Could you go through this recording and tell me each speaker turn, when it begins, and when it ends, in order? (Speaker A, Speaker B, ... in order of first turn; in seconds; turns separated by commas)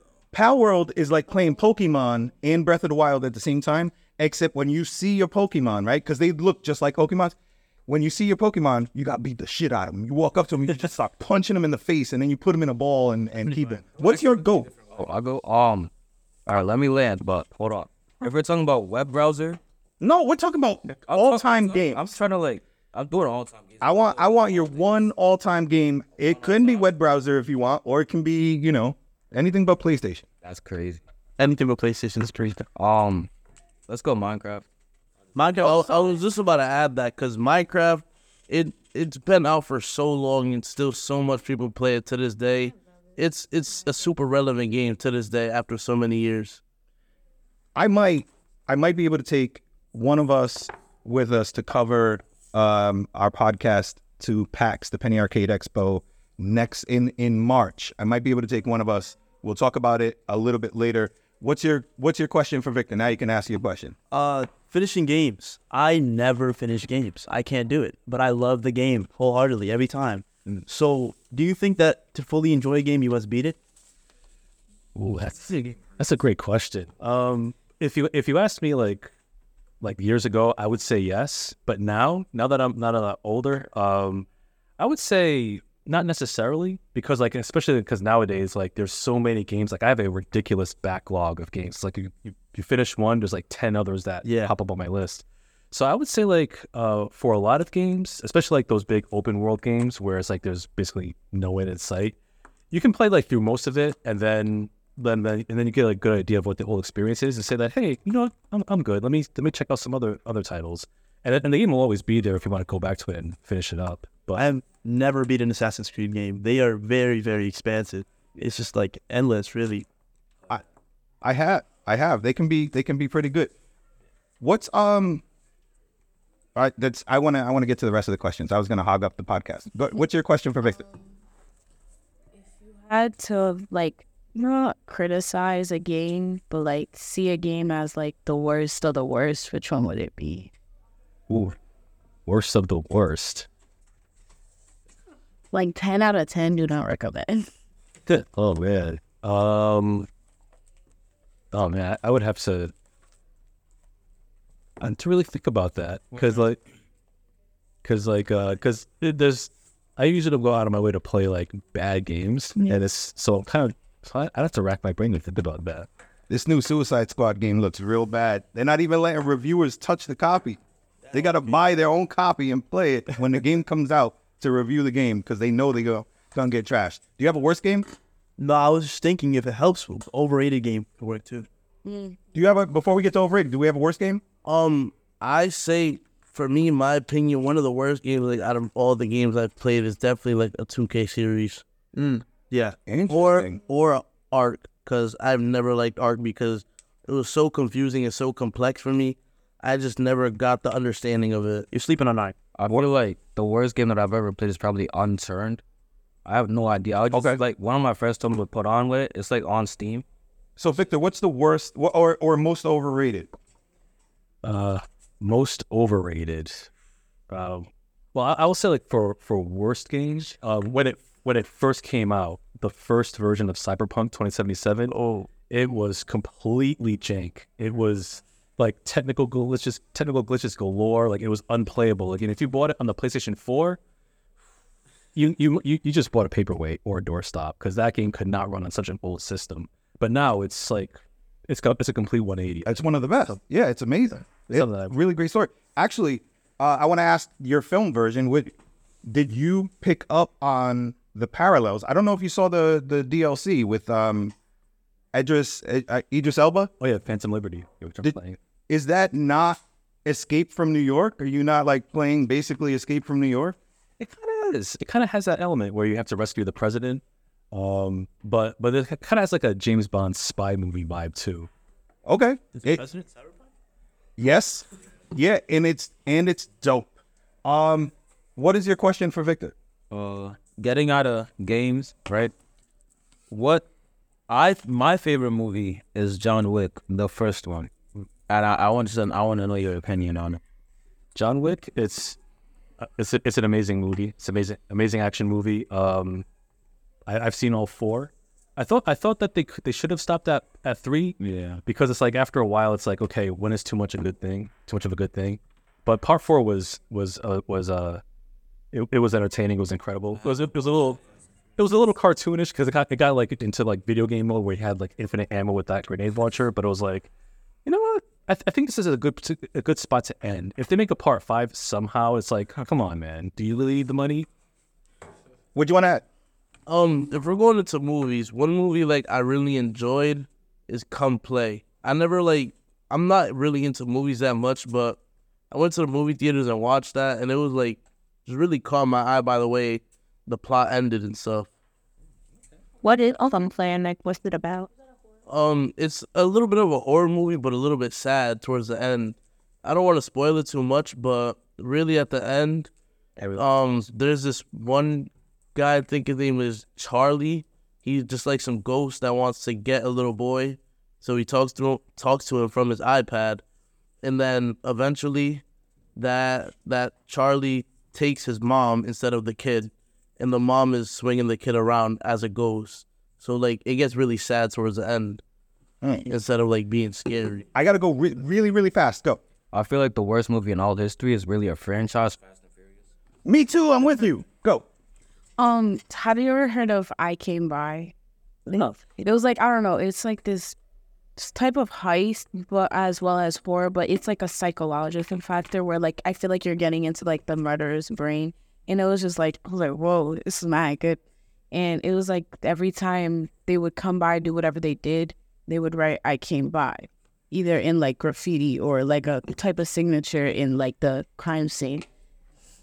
Speaker A: 0.3-7.3, Speaker A: 7.9-14.7, Speaker B: 14.8-15.9, Speaker B: 16.4-19.6, Speaker A: 20.0-22.1, Speaker B: 21.0-23.9, Speaker A: 23.8-30.3, Speaker B: 30.4-31.0, Speaker C: 31.4-32.6, Speaker B: 32.6-33.3, Speaker B: 33.9-34.6, Speaker C: 35.3-36.0, Speaker D: 35.6-46.6, Speaker A: 47.8-64.0, Speaker C: 64.1-73.6, Speaker E: 74.9-79.1, Speaker E: 79.8-84.3, Speaker E: 84.8-102.2, Speaker C: 94.2-94.5, Speaker E: 102.7-114.4, Speaker C: 114.3-119.8, Speaker A: 121.2-123.5, Speaker A: 124.4-125.2, Speaker A: 126.5-130.8, Speaker F: 132.8-140.5, Speaker E: 141.3-141.6, Speaker E: 142.2-143.5, Speaker F: 145.5-147.5, Speaker E: 148.1-150.1, Speaker E: 151.5-152.7, Speaker E: 154.8-156.6, Speaker E: 157.8-165.9, Speaker A: 166.3-170.6, Speaker A: 171.1-177.9, Speaker C: 178.4-181.5, Speaker F: 181.8-182.2, Speaker A: 182.3-184.2, Speaker D: 184.4-191.6, Speaker C: 191.9-194.6, Speaker A: 192.8-193.6, Speaker D: 194.0-201.7, Speaker C: 201.7-202.3, Speaker B: 202.5-205.6, Speaker B: 206.2-210.0, Speaker A: 207.1-207.4, Speaker A: 210.6-213.3, Speaker E: 214.4-216.7, Speaker E: 217.3-224.9, Speaker C: 224.9-225.3, Speaker E: 225.5-233.8, Speaker E: 235.1-243.4, Speaker A: 242.7-248.5, Speaker E: 244.5-244.9, Speaker A: 249.0-254.3, Speaker A: 255.1-256.7, Speaker E: 256.8-258.4, Speaker A: 258.7-263.6, Speaker E: 264.0-271.5, Speaker A: 272.1-272.8, Speaker C: 272.5-273.1, Speaker A: 274.2-279.5, Speaker B: 279.9-282.3, Speaker B: 283.3-283.7, Speaker B: 284.3-287.7, Speaker B: 288.3-290.4, Speaker E: 291.1-292.2, Speaker E: 292.8-296.2, Speaker E: 297.1-308.0, Speaker B: 301.2-301.6, Speaker E: 308.7-311.0, Speaker E: 311.6-317.1, Speaker E: 317.6-324.3, Speaker A: 325.5-326.0, Speaker D: 326.7-335.0, Speaker D: 335.5-341.5, Speaker F: 342.8-344.7, Speaker D: 345.3-352.7, Speaker D: 353.3-363.4, Speaker D: 364.0-365.4, Speaker D: 365.9-375.2, Speaker A: 375.8-376.1, Speaker D: 376.1-377.4, Speaker A: 377.5-379.2, Speaker B: 379.5-382.2, Speaker A: 383.2-384.6, Speaker F: 385.4-387.9, Speaker F: 388.4-390.6, Speaker F: 391.1-411.9